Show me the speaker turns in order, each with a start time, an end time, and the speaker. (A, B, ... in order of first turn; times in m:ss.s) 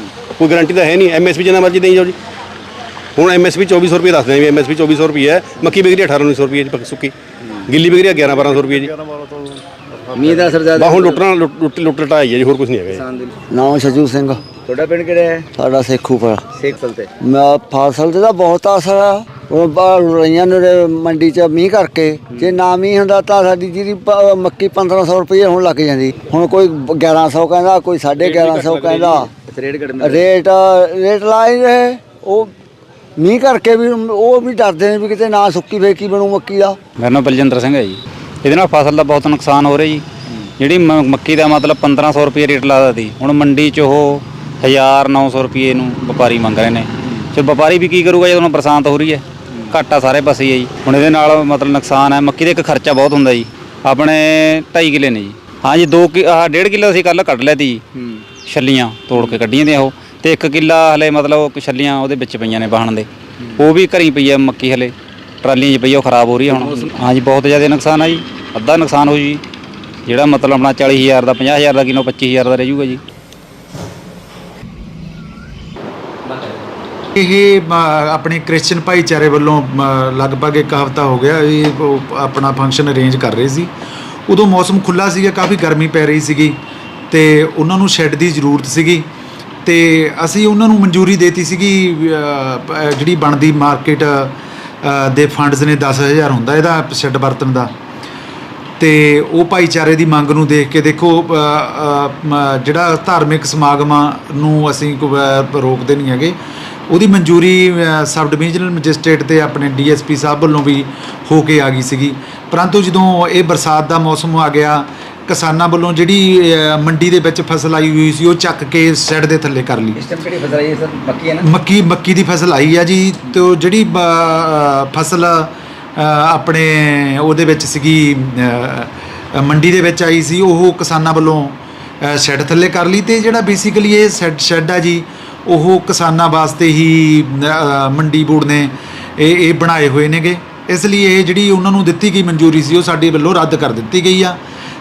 0:00.4-0:02.2 A
0:03.2-0:07.1 A
0:07.7-0:09.0 A
0:10.1-0:11.2 B
0:10.7-0:13.0 A
0:12.9-0:13.3 B
0:13.5-0:14.4 C
0:14.7-0:15.5 B
0:15.6-0:16.5 C
0:16.5-0:17.1 B
0:17.2-0:29.3 C
0:22.3-0:22.6 B
0:28.2-0:29.2 A
0:29.4-0:30.3 B
0:30.0-0:32.5 C
0:33.2-0:36.8 C
0:37.0-0:40.0 D
0:40.6-0:57.8 D
0:58.4-1:09.4 D
1:06.5-1:06.9 B
1:10.0-1:13.0 D
1:17.2-1:23.7 E
1:24.3-1:26.6 E
1:27.1-1:29.1 E
1:29.6-1:37.7 E
1:38.8-1:46.4 E
1:46.9-2:00.0 E
2:00.0-2:01.5 B
2:01.4-2:24.4 E